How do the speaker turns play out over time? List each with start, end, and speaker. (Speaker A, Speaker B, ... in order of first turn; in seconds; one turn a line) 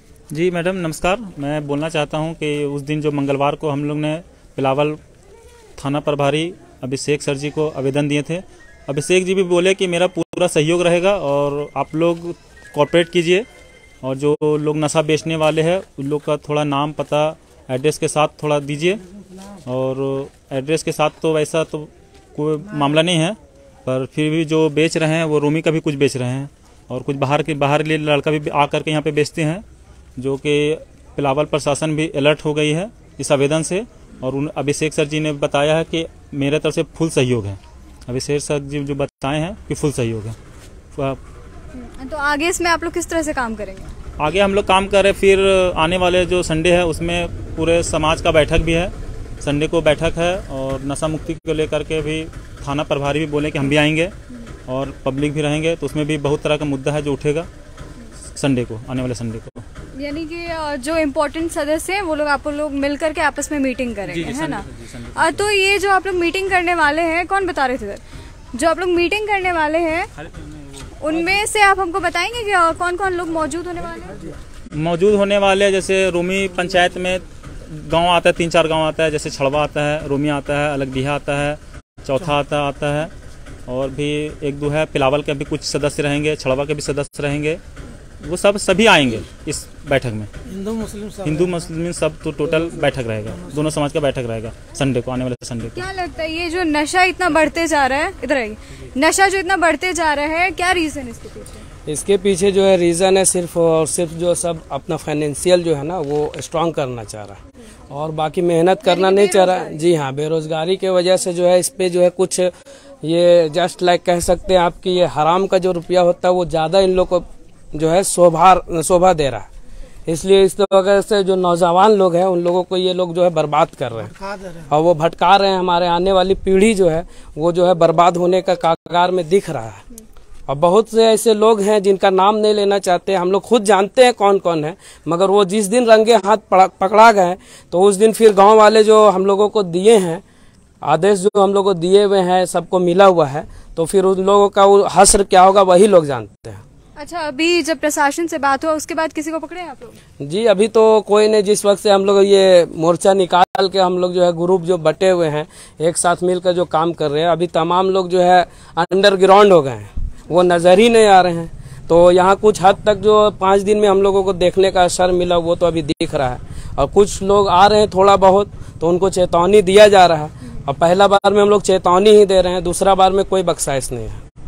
Speaker A: 0.3-5.0
Speaker A: 5.8-13.5
Speaker A: 14.0-19.0
Speaker A: 19.7-29.6
Speaker A: 30.2-40.4
Speaker B: 41.7-43.9
Speaker A: 44.2-54.1
Speaker A: 54.7-57.5
Speaker A: 58.4-59.6
Speaker B: 60.0-68.0
Speaker A: 64.0-65.4
Speaker B: 68.5-70.1
Speaker B: 71.0-74.2
Speaker A: 74.7-83.1
Speaker A: 83.7-87.6
Speaker A: 88.2-95.8
Speaker B: 95.8-101.7
Speaker C: 101.9-112.5
Speaker B: 108.9-109.8
Speaker C: 113.0-119.5
Speaker C: 120.1-124.1
Speaker C: 124.7-129.8
Speaker C: 130.5-140.2
Speaker C: 140.8-146.6
Speaker B: 147.0-150.0
Speaker C: 150.2-174.2